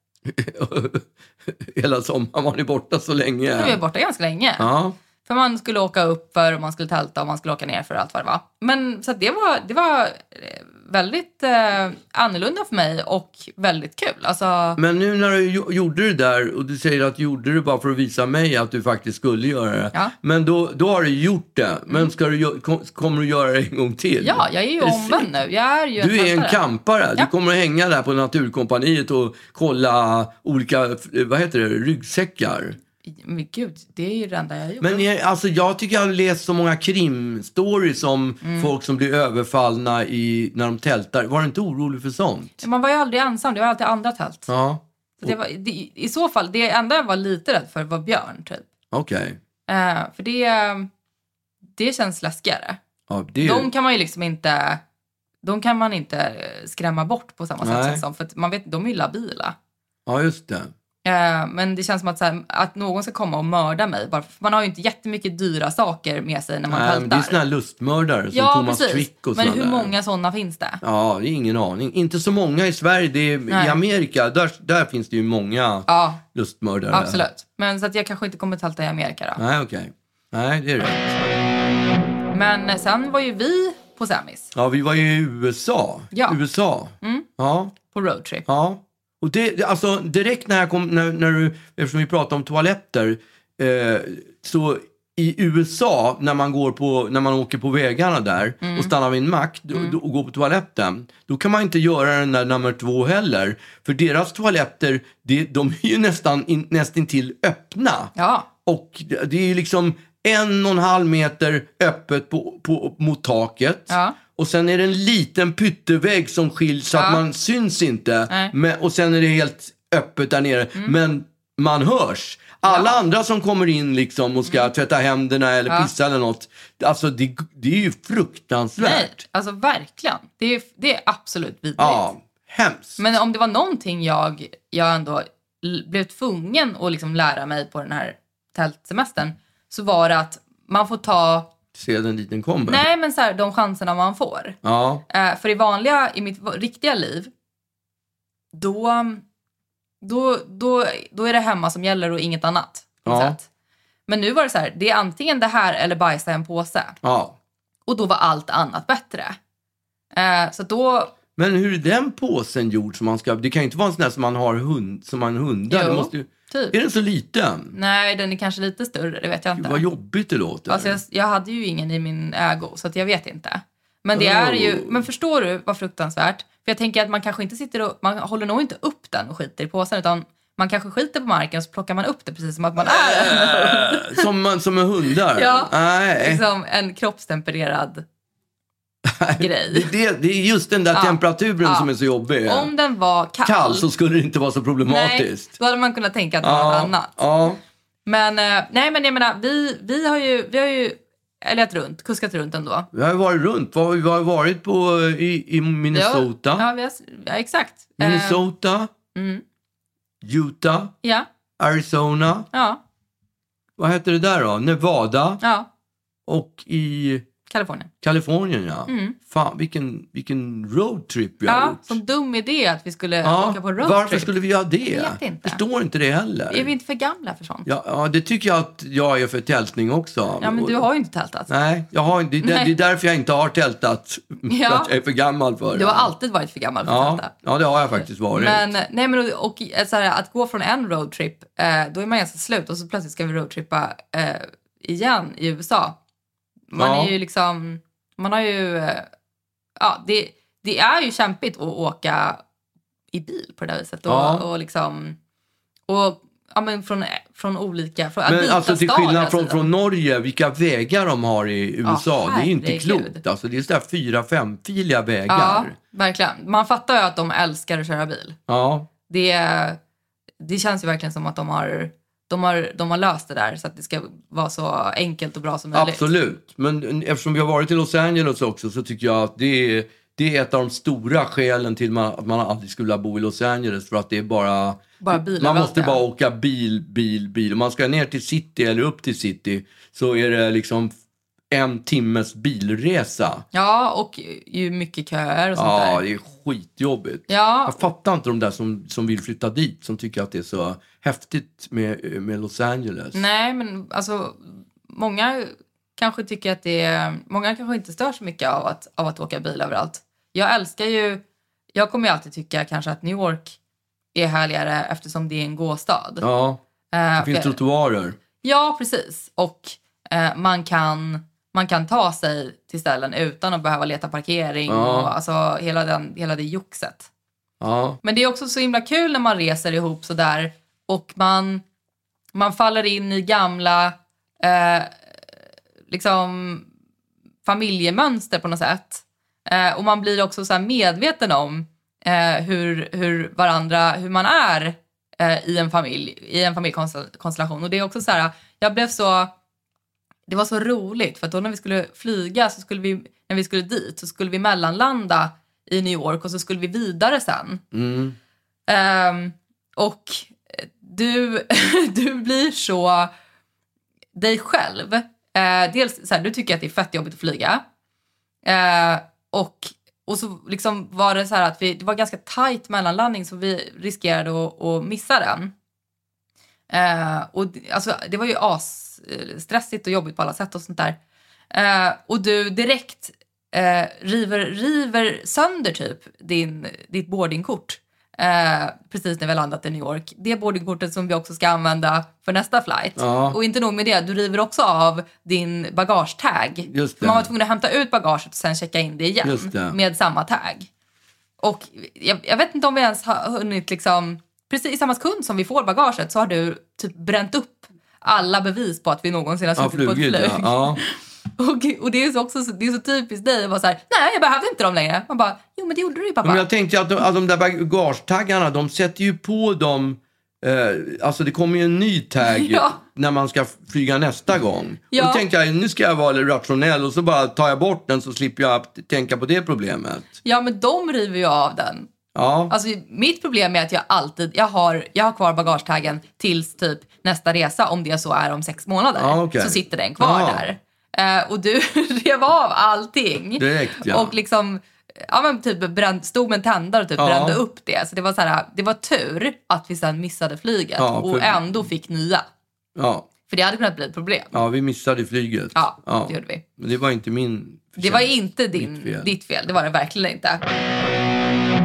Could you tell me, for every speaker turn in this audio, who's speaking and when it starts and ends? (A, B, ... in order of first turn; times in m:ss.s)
0:00.2-0:03.8 A
0:03.5-0:04.7 B
0:04.6-0:05.0 A
0:05.2-0:14.8 B
0:14.8-0:25.3 A
0:24.2-0:26.6 B
0:26.0-0:32.8 A
0:33.1-0:35.0 B
0:34.8-0:42.6 A
0:38.4-0:38.7 B
0:42.6-0:44.5 B
0:44.5-0:45.4 A
0:45.2-0:48.6 B
0:48.9-0:49.4 A
0:49.7-0:50.9 B
0:51.7-0:52.8 B
0:53.1-0:53.7 A
0:53.4-0:54.8 B
0:55.4-0:59.5 B
0:57.6-0:58.0 A
1:00.0-1:00.7 A
1:01.0-1:07.4 B
1:06.7-1:09.9 A
1:08.3-1:10.8 B
1:10.8-1:17.2 A
1:13.5-1:13.8 B
1:15.9-1:16.2 B
1:16.9-1:19.4 B
1:19.4-1:21.4 A
1:22.3-1:24.5 B
1:24.5-1:27.7 A
1:26.1-1:26.4 B
1:27.0-1:27.2 B
1:27.8-1:28.4 B
1:28.4-1:48.1 A
1:38.6-1:38.9 B
1:48.2-1:48.5 B
1:48.6-2:09.2 A
1:53.9-1:54.2 B
1:56.9-1:57.2 B
2:02.6-2:03.0 B
2:04.4-2:04.7 B
2:08.8-2:12.1 B
2:11.8-2:13.1 A
2:13.0-2:21.5 B
2:21.7-2:22.8 A
2:22.7-2:24.6 B
2:24.6-2:25.0 A
2:25.1-2:27.3 B
2:28.5-2:29.2 B
2:30.0-2:33.4 B
2:33.0-2:33.4 A
2:34.1-2:37.0 B
2:37.0-2:37.4 A
2:37.9-2:39.4 B
2:40.1-2:41.1 B
2:41.4-2:47.7 A
2:45.7-2:46.7 B
2:47.7-2:49.8 B
2:49.6-2:51.0 A
2:50.7-3:04.3 B
2:54.1-2:55.0 A
3:02.8-3:06.4 A
3:05.3-3:08.0 B
3:09.0-3:12.7 A
3:09.4-3:09.9 B
3:10.9-3:11.9 B
3:12.4-3:13.9 B
3:13.4-3:15.5 A
3:14.9-3:17.1 B
3:16.4-3:17.6 A
3:18.0-3:22.9 B
3:22.9-3:26.7 A
3:25.9-3:28.5 B
3:28.0-3:28.9 A
3:29.1-3:29.4 B
3:30.2-3:30.9 A
3:31.6-3:32.5 A
3:32.5-3:32.8 B
3:33.8-3:35.4 A
3:35.4-3:35.7 B
3:36.3-3:37.2 A
3:37.5-3:37.9 B
3:38.0-3:42.0 A
3:38.9-3:39.2 B
3:41.4-3:44.3 B
3:43.2-3:46.7 A
3:44.8-3:45.6 B
3:46.5-3:47.7 B
3:47.6-3:50.8 A
3:50.4-3:51.5 B
3:51.5-3:56.1 A
3:52.4-3:52.7 B
3:54.4-3:54.9 B
3:55.7-3:57.3 B
3:56.8-3:58.7 A
3:58.0-4:06.0 B
4:06.7-4:09.1 B
4:06.8-4:07.1 A
4:09.8-4:12.4 B
4:13.1-4:15.2 B
4:14.1-4:14.4 A
4:15.9-4:19.7 B
4:18.2-4:25.8 A
4:21.8-4:23.2 B
4:25.3-4:28.4 B
4:28.5-4:28.9 A
4:29.1-4:29.8 B
4:30.4-4:36.1 B
4:35.7-4:50.9 A
4:45.0-4:46.0 B
4:51.5-4:53.4 A
4:53.5-4:56.0 B
4:55.5-5:03.2 A
4:57.3-4:57.8 B
5:03.1-5:11.2 B
5:11.7-5:13.6 B
5:14.1-5:16.2 B
5:16.2-5:16.6 A
5:16.9-5:17.6 B
5:17.2-5:18.2 A
5:18.4-5:27.1 B
5:24.7-5:25.1 A
5:27.6-5:28.0 A
5:28.0-5:31.6 B
5:32.3-5:34.9 B
5:35.9-5:36.7 B
5:37.4-5:49.3 B
5:50.3-5:57.6 B
5:57.7-5:58.2 A
5:58.7-6:03.1 B
6:04.1-6:07.6 B
6:08.4-6:15.5 B
6:16.7-6:21.0 B
6:21.5-6:40.7 B
6:33.0-6:33.4 A
6:36.7-6:37.3 A
6:39.2-6:39.8 A
6:41.4-6:56.4 B
6:49.6-6:50.8 A
6:56.2-7:10.1 A
7:02.2-7:02.8 B
7:04.9-7:05.2 B
7:10.2-7:11.9 B
7:12.1-7:12.5 A
7:12.5-7:32.3 B
7:18.9-7:20.4 A
7:23.4-7:24.1 A
7:27.0-7:27.4 A
7:30.8-7:31.6 A
7:32.8-7:33.1 A
7:33.3-7:34.4 B
7:34.3-7:39.1 A
7:35.5-7:36.4 B
7:37.8-7:40.4 B